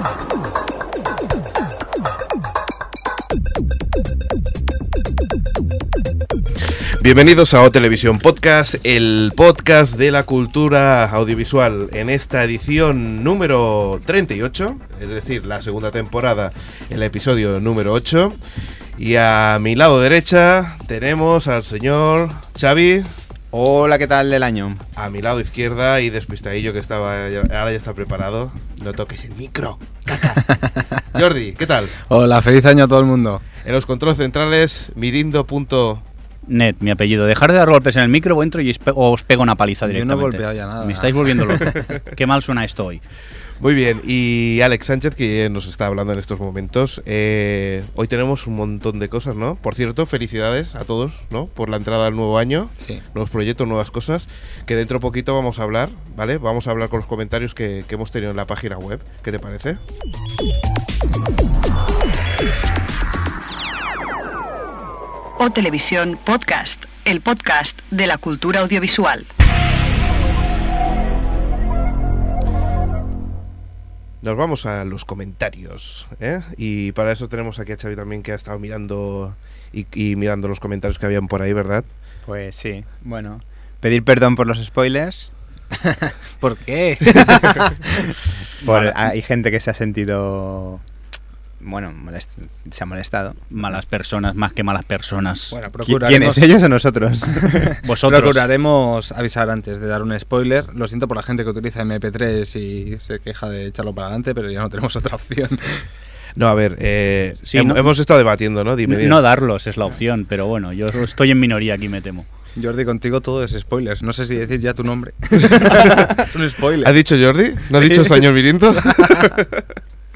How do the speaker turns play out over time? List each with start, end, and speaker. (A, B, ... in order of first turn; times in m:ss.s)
0:07.0-0:18.4 A
0:19.0-0:23.1 A
0:23.5-0:24.8 B
0:25.0-0:30.6 A
0:30.5-0:30.8 C
0:31.1-0:31.9 A
0:32.0-0:33.4 C
0:33.6-0:36.0 A
0:36.5-0:43.0 D
0:39.9-0:41.8 C
0:43.6-0:59.8 A
1:05.4-1:09.3 E
1:14.2-1:21.9 A
1:22.2-1:25.3 B
1:25.9-1:28.1 C
1:27.1-1:27.7 B
1:28.6-1:30.8 B
1:28.6-1:29.1 C
1:31.6-1:33.4 B
1:33.5-1:35.6 D
1:35.5-1:36.5 C
1:35.8-1:37.8 B
1:37.8-1:38.5 D
1:38.0-1:45.9 C
1:46.4-1:49.2 A
1:47.4-1:47.9 D
1:48.9-1:52.3 D
1:52.6-1:57.0 C
1:55.6-1:56.2 A
1:56.8-1:59.7 A
1:57.7-1:58.3 C
1:58.8-1:59.3 C